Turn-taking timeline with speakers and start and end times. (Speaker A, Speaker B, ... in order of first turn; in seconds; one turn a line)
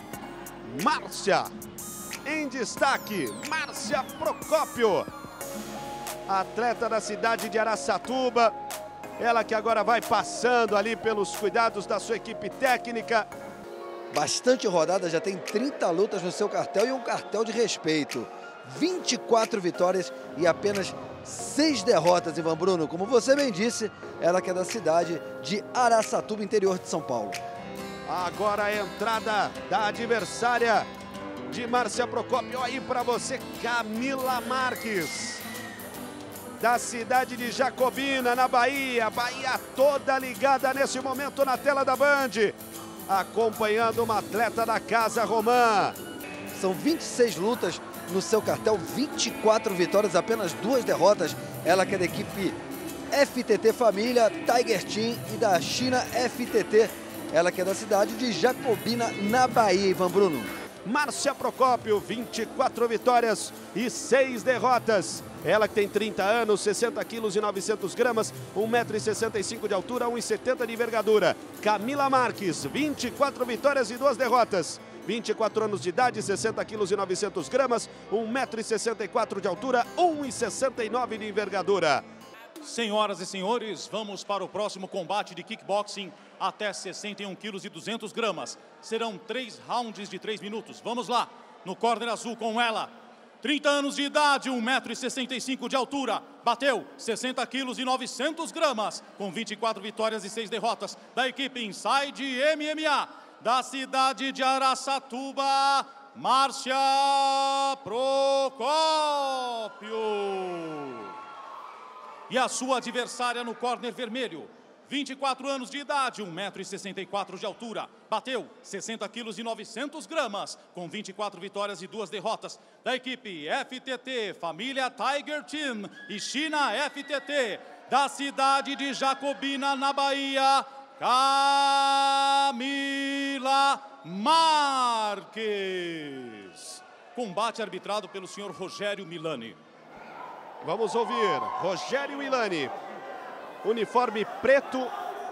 Speaker A: 0.6-1.5
Speaker A: 2.2-5.1
Speaker A: 6.3-8.5
Speaker A: 9.2-13.3
Speaker B: 14.1-27.4
Speaker A: 28.1-30.9
Speaker A: 31.5-35.4
Speaker A: 36.6-42.6
Speaker A: 43.1-46.0
Speaker B: 46.5-52.6
Speaker B: 53.1-60.5
Speaker A: 60.8-82.0
Speaker C: 82.6-111.1
Speaker C: 112.3-139.6
Speaker A: 140.6-142.7
Speaker A: 143.6-144.9